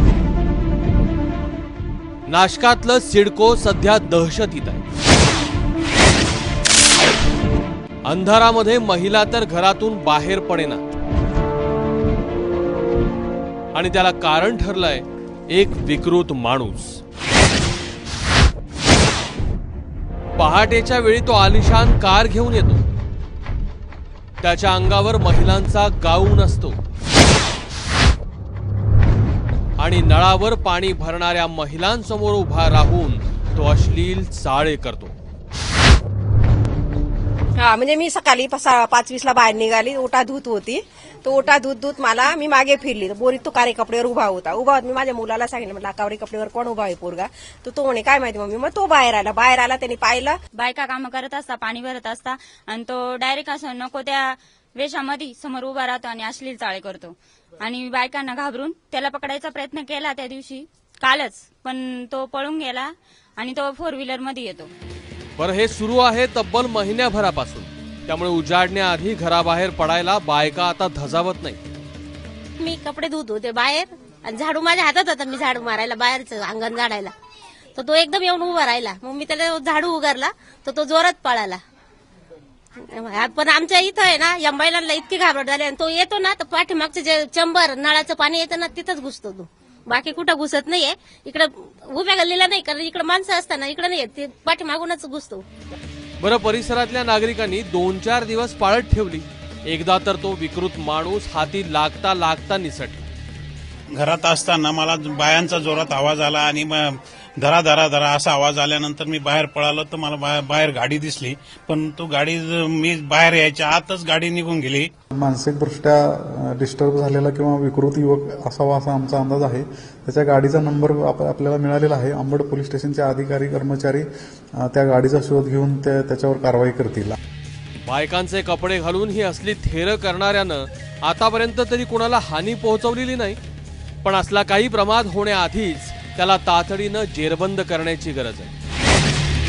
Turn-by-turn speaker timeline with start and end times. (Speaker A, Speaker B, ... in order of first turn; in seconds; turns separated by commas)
Speaker A: 2.3-4.8, Speaker A: 8.1-10.8, Speaker A: 13.7-17.0, Speaker A: 20.4-22.8, Speaker A: 24.4-26.8, Speaker A: 29.8-35.1, Speaker B: 37.6-50.4, Speaker C: 50.5-64.7, Speaker A: 65.4-71.6, Speaker D: 72.6-77.1, Speaker D: 77.8-81.6, Speaker D: 82.8-95.4, Speaker A: 96.2-103.0, Speaker E: 103.9-114.9, Speaker F: 115.2-124.0, Speaker F: 124.6-127.2, Speaker A: 127.8-133.4, Speaker A: 134.0-138.5